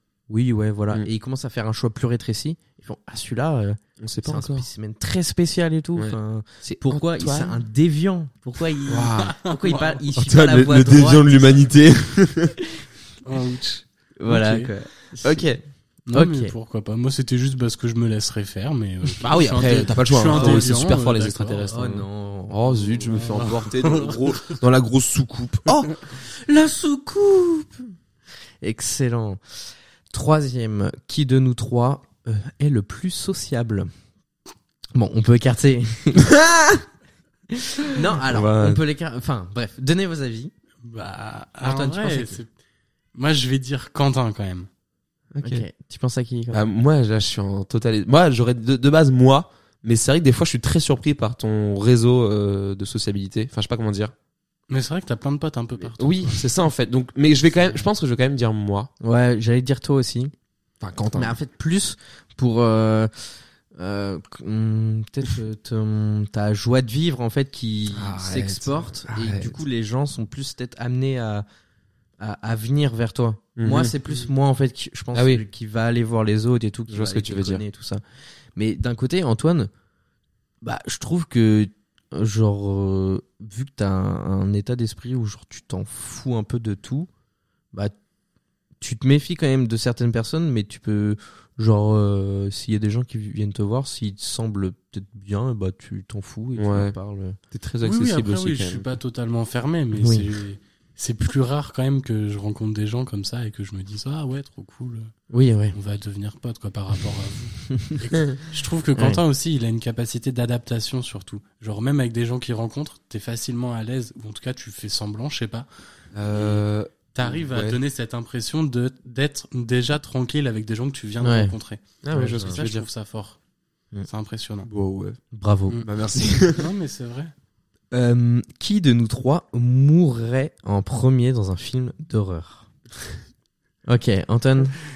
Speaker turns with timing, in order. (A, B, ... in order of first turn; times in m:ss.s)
0:00.3-0:11.6 A
0:04.0-0:04.7 B
0:06.0-0:07.6 B
0:08.9-0:09.4 B
0:09.5-0:10.0 C
0:10.1-0:12.5 B
0:13.2-0:14.7 C
0:14.2-0:15.4 A
0:15.2-0:15.6 B
0:16.1-0:21.8 C
0:16.1-0:16.5 A
0:19.2-0:25.9 B
0:20.3-0:20.7 A
0:21.7-0:23.4 A
0:23.1-0:24.6 C
0:26.2-0:27.9 A
0:28.6-0:29.4 A
0:30.1-0:33.9 A
0:34.9-0:36.3 A
0:36.2-0:36.8 B
0:37.8-0:40.5 A
0:38.3-0:38.8 B
0:40.8-0:42.5 C
0:41.6-0:42.4 A
0:43.1-0:44.7 C
0:45.4-0:45.6 B
0:45.4-0:46.6 A
0:46.5-0:54.1 B
0:54.7-0:56.4 C
0:55.9-0:58.9 B
0:59.0-1:00.3 A
1:00.8-1:01.3 B
1:01.1-1:11.4 A
1:07.9-1:09.6 B
1:12.2-1:18.0 A
1:13.6-1:13.9 B
1:15.1-1:15.4 B
1:16.9-1:17.6 B
1:18.6-1:19.7 A
1:20.6-1:27.1 A
1:28.8-1:37.4 A
1:36.6-1:36.9 B
1:37.5-1:38.9 B
1:37.8-1:45.1 C
1:40.0-1:40.2 A
1:45.3-1:45.7 A
1:45.7-1:55.7 C
1:56.1-1:57.8 B
1:56.3-1:56.6 C
1:57.1-2:03.4 C
2:01.2-2:01.5 A
2:02.0-2:02.9 B
2:04.0-2:04.7 C
2:04.6-2:05.2 B
2:05.3-2:05.8 A
2:05.8-2:06.6 B
2:06.4-2:07.3 C
2:07.9-2:12.7 A
2:13.9-2:14.8 A